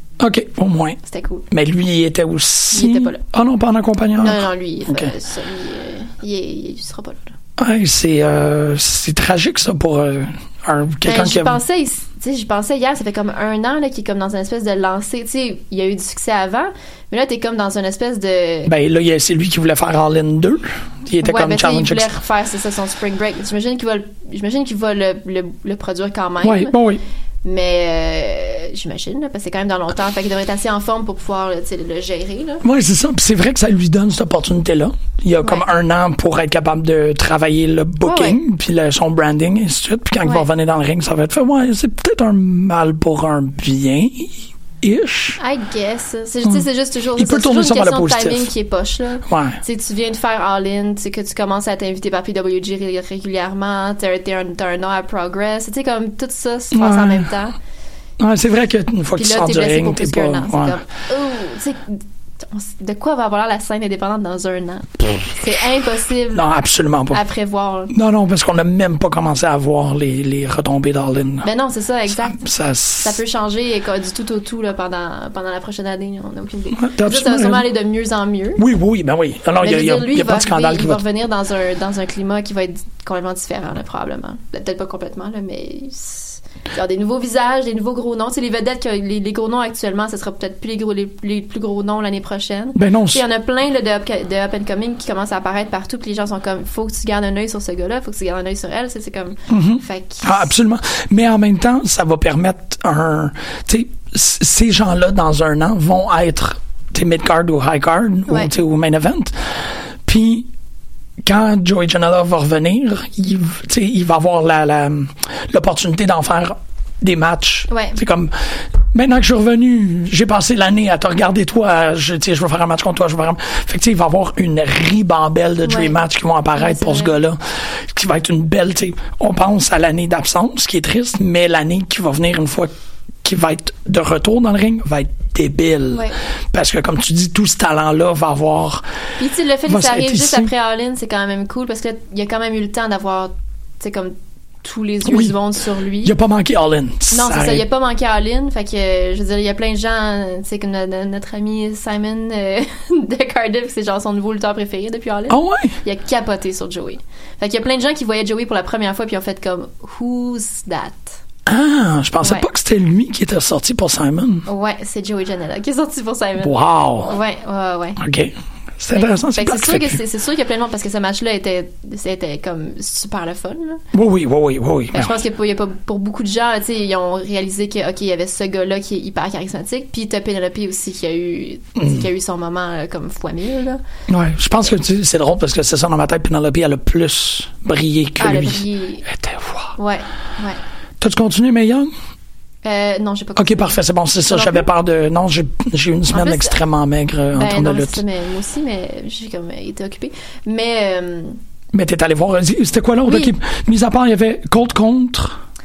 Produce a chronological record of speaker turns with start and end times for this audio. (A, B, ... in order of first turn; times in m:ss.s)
0:00.2-0:01.0 A
0:01.0-0:01.5 B
0:01.5-0:05.1 A
0:02.7-0:03.2 B
0:04.2-0:07.3 B
0:07.6-0:11.6 A
0:11.0-0:18.7 B
0:18.6-0:22.1 A
0:21.2-0:26.8 B
0:26.4-0:27.0 A
0:27.4-0:32.6 B
0:32.6-0:45.4 A
0:38.0-0:38.4 B
0:45.4-0:57.6 B
0:47.1-0:48.5 A
0:49.3-0:49.6 A
0:56.7-0:57.3 A
0:58.2-1:00.8 A
0:59.2-1:06.4 B
1:06.3-1:07.2 A
1:07.1-1:07.9 B
1:07.9-1:11.5 A
1:11.4-1:12.4 B
1:12.2-1:13.2 A
1:13.0-1:18.6 B
1:16.7-1:17.7 A
1:18.6-1:21.0 A
1:19.6-1:40.5 B
1:32.7-1:33.2 A
1:39.5-1:50.5 A
1:51.2-1:58.3 A
1:57.7-1:58.0 B
1:58.9-2:12.7 A
2:05.6-2:05.9 B
2:06.5-2:07.1 B
2:13.2-2:18.8 A
2:15.9-2:16.2 B
2:19.2-2:26.1 B
2:19.7-2:20.5 A
2:25.0-2:25.4 A
2:26.0-2:27.6 A
2:27.1-2:41.2 B
2:35.3-2:35.8 A
2:41.4-2:44.4 A
2:42.2-2:42.5 B
2:44.4-2:48.0 B
2:46.4-2:47.2 A
2:48.0-2:50.0 A
2:48.9-2:53.8 B
2:53.9-2:55.2 A
2:54.9-3:03.8 B
3:01.8-3:02.0 A
3:04.1-3:09.7 A
3:08.2-3:09.0 B
3:09.8-3:10.6 B
3:11.0-3:11.9 A
3:12.6-3:13.8 B
3:13.4-3:18.0 A
3:14.3-3:14.7 B
3:16.1-3:16.6 B
3:17.3-3:21.4 B
3:21.7-3:25.4 A
3:23.0-3:23.3 B